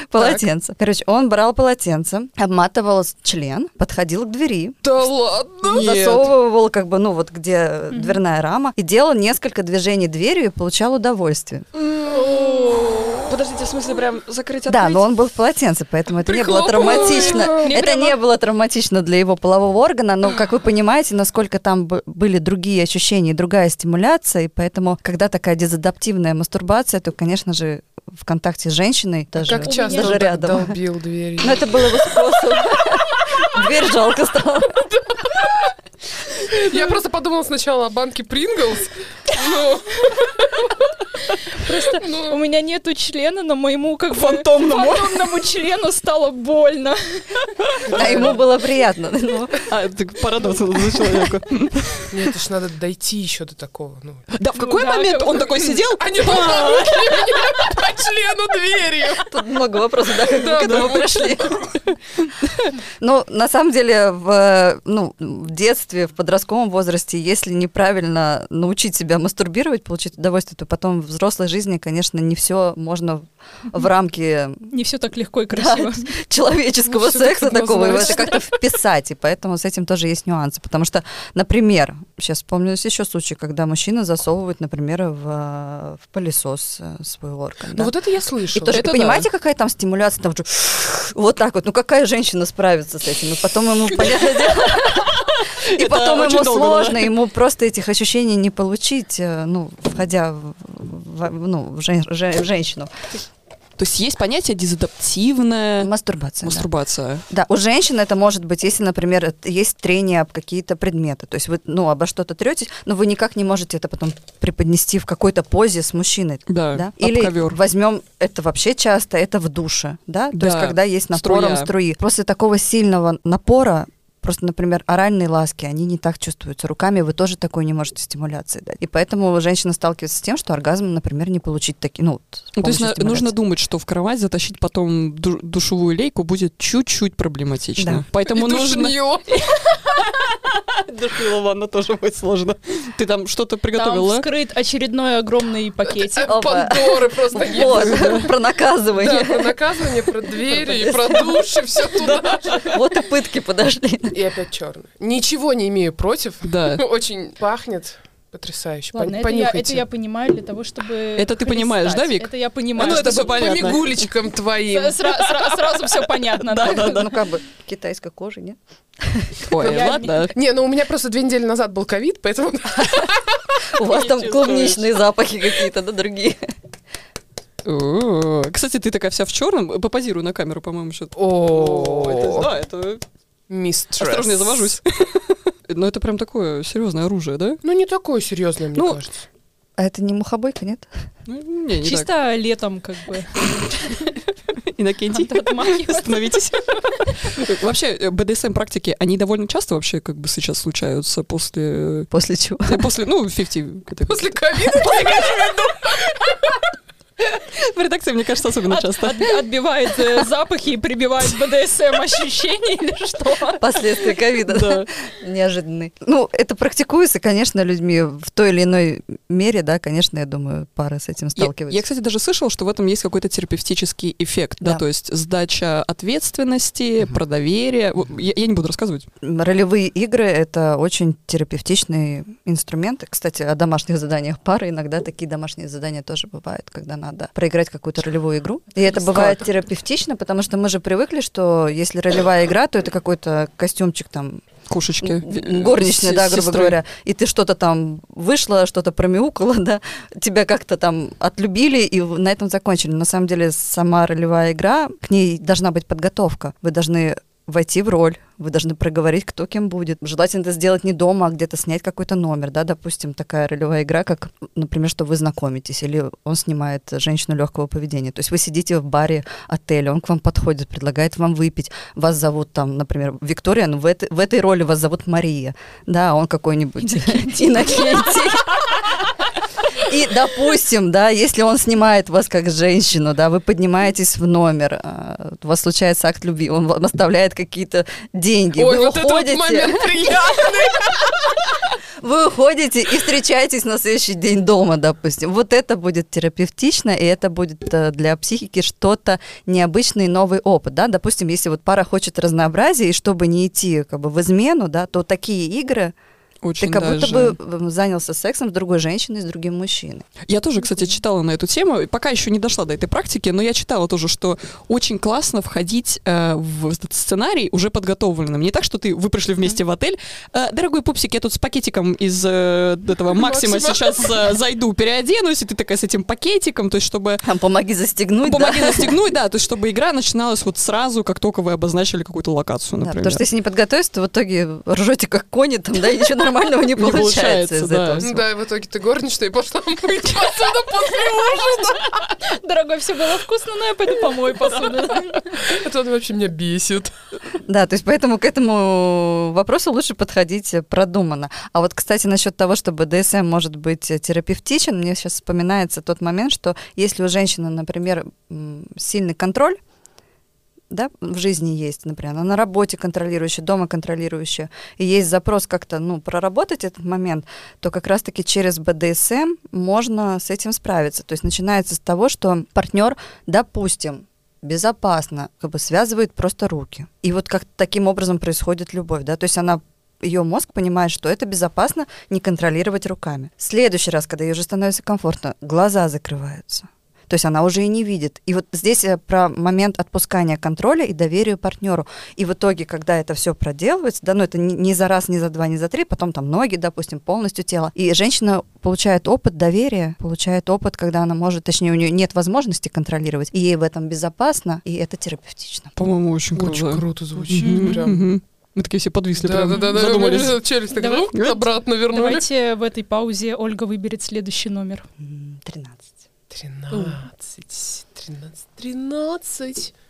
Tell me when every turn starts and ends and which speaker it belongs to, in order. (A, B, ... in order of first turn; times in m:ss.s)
0:00.1-0:04.8 A
0:04.8-0:06.0 B
0:05.7-0:06.3 C
0:05.7-0:11.6 A
0:07.9-0:08.2 D
0:11.8-0:13.3 B
0:12.4-0:15.0 C
0:14.7-0:30.8 A
0:16.3-0:17.8 B
0:17.6-0:18.2 D
0:29.4-0:32.2 B
0:29.5-0:30.3 D
0:31.4-0:34.9 A
0:35.1-0:35.7 B
0:36.4-0:40.8 B
0:41.5-0:47.7 D
0:42.0-0:42.4 B
0:44.1-0:45.2 C
0:47.9-0:48.4 B
0:47.9-0:49.7 A
0:49.7-0:52.1 C
0:52.1-0:54.3 B
0:54.3-0:57.4 C
0:54.5-0:55.6 D
0:55.9-0:59.3 B
0:59.3-1:01.8 A
1:00.2-1:01.7 B
1:00.6-1:01.0 C
1:03.0-1:14.7 A
1:14.7-1:16.1 D
1:15.5-1:27.9 A
1:16.9-1:18.4 B
1:27.7-1:28.9 B
1:28.5-1:42.9 A
1:28.6-1:29.3 C
1:35.4-1:37.1 C
1:43.8-1:45.9 C
1:45.8-1:46.7 A
1:46.4-1:47.2 C
1:47.3-2:13.3 A
1:56.5-1:57.6 C
2:00.4-2:01.7 C
2:12.6-2:24.3 C
2:17.8-2:18.0 A
2:18.2-2:19.4 B
2:23.7-2:26.5 D
2:26.1-2:28.3 B
2:26.3-2:29.6 A
2:27.5-2:28.3 C
2:28.9-2:32.8 B
2:30.6-2:31.4 A
2:32.0-2:32.8 C
2:32.6-2:34.2 A
2:34.1-2:39.8 B
2:36.4-2:36.8 C
2:38.9-2:43.8 D
2:41.2-2:44.0 C
2:42.8-2:45.5 B
2:44.7-2:47.2 D
2:46.4-2:47.1 C
2:46.6-2:49.4 A
2:49.5-2:50.4 C
2:49.5-2:50.3 D
2:50.3-2:53.6 B
2:53.7-2:56.5 A
2:53.8-2:55.0 C
2:57.6-3:03.0 C
3:01.2-3:02.5 B
3:03.5-3:04.8 B
3:04.0-3:07.6 C
3:07.6-3:09.2 B
3:08.7-3:09.0 C
3:09.8-3:10.9 A
3:11.3-3:12.1 C
3:11.8-3:13.9 D
3:14.7-3:22.1 C
3:15.1-3:16.2 D
3:22.1-3:22.9 A
3:22.6-3:25.5 C
3:24.1-3:26.6 B
3:27.2-3:29.4 C
3:28.7-3:33.6 D
3:33.6-3:41.8 A
3:34.5-3:34.9 C
3:41.4-3:49.1 C
3:49.2-4:04.5 A
3:59.0-3:59.5 C
4:04.7-4:06.8 C
4:05.0-4:38.8 A
4:39.8-4:49.9 A
4:48.6-4:51.4 B
4:52.0-5:05.9 A
5:06.4-5:07.4 C
5:06.6-5:10.1 A
5:10.3-5:27.3 C
5:23.1-5:24.1 B
5:27.2-5:29.0 A
5:28.2-5:33.2 C
5:32.8-5:38.2 A
5:36.8-5:38.2 C
5:38.0-5:42.2 B
5:42.2-5:45.3 D
5:45.3-5:46.9 B
5:47.4-5:59.6 A
6:00.7-6:45.8 A
6:45.8-6:50.5 C
6:46.4-6:48.1 B
6:49.2-6:52.2 B
6:50.7-6:51.1 D
6:51.1-6:51.4 C
6:51.9-6:54.9 D
6:55.0-6:55.9 A
6:56.3-6:59.7 B